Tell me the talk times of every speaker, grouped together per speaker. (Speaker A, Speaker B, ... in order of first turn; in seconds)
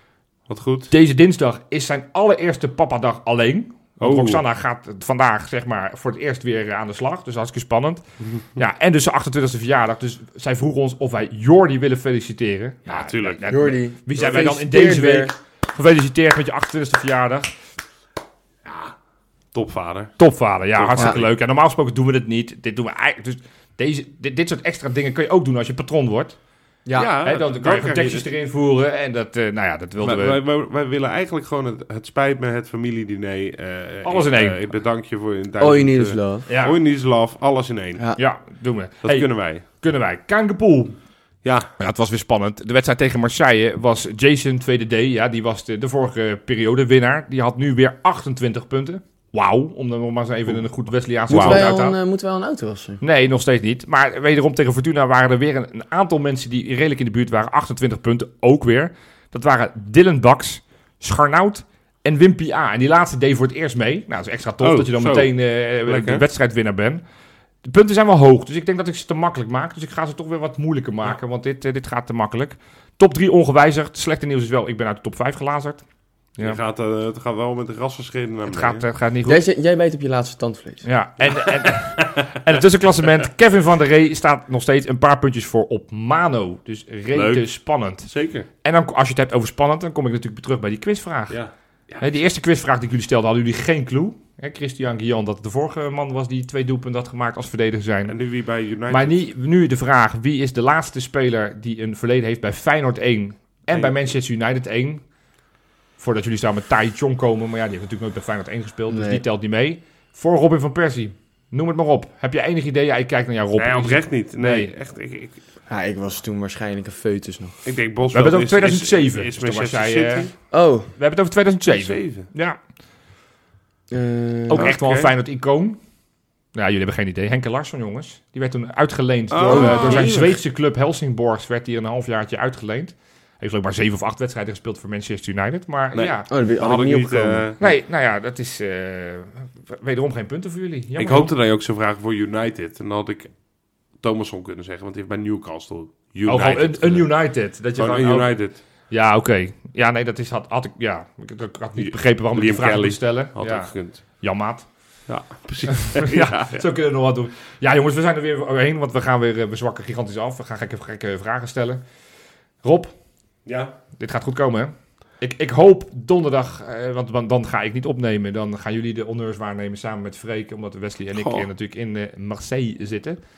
Speaker A: 0.5-0.9, 4.0-4.5, 8.2-8.4, 12.9-13.8, 18.6-18.9, 19.5-20.1, 20.7-21.3, 26.9-28.3, 30.0-38.1, 39.0-39.6, 41.4-41.7, 51.3-51.7, 64.6-66.2, 76.4-78.9, 81.7-82.0, 87.1-88.5, 91.3-92.0, 98.1-99.2, 103.7-104.1, 113.6-115.4, 117.7-120.3, 121.7-122.3, 124.6-125.1, 129.3-130.4, 135.9-137.6, 141.0-143.3, 144.0-147.2, 147.8-148.6, 151.8-154.0, 155.1-156.7, 163.4-163.7, 171.2-171.5
Speaker B: 0.9-8.0, 8.6-17.5, 20.2-26.4, 27.2-30.4, 34.0-34.6, 36.5-36.8, 38.2-41.0, 41.8-52.0, 53.0-67.0, 67.6-75.8, 78.5-79.4, 80.8-88.1, 88.6-91.4, 92.0-98.2, 98.9-105.0, 106.0-114.7, 118.1-120.4, 121.0-122.6, 124.5-125.8, 126.5-136.3, 137.6-141.3, 146.3-148.4, 148.9-154.7, 155.7-161.8, 162.6-163.0, 164.0-173.2
Speaker C: 13.5-15.3, 26.9-27.1, 35.6-36.5, 51.3-53.0, 79.2-80.8, 108.9-109.2, 115.7-117.5, 120.5-120.9, 123.9-124.7, 129.5-130.2, 136.3-137.5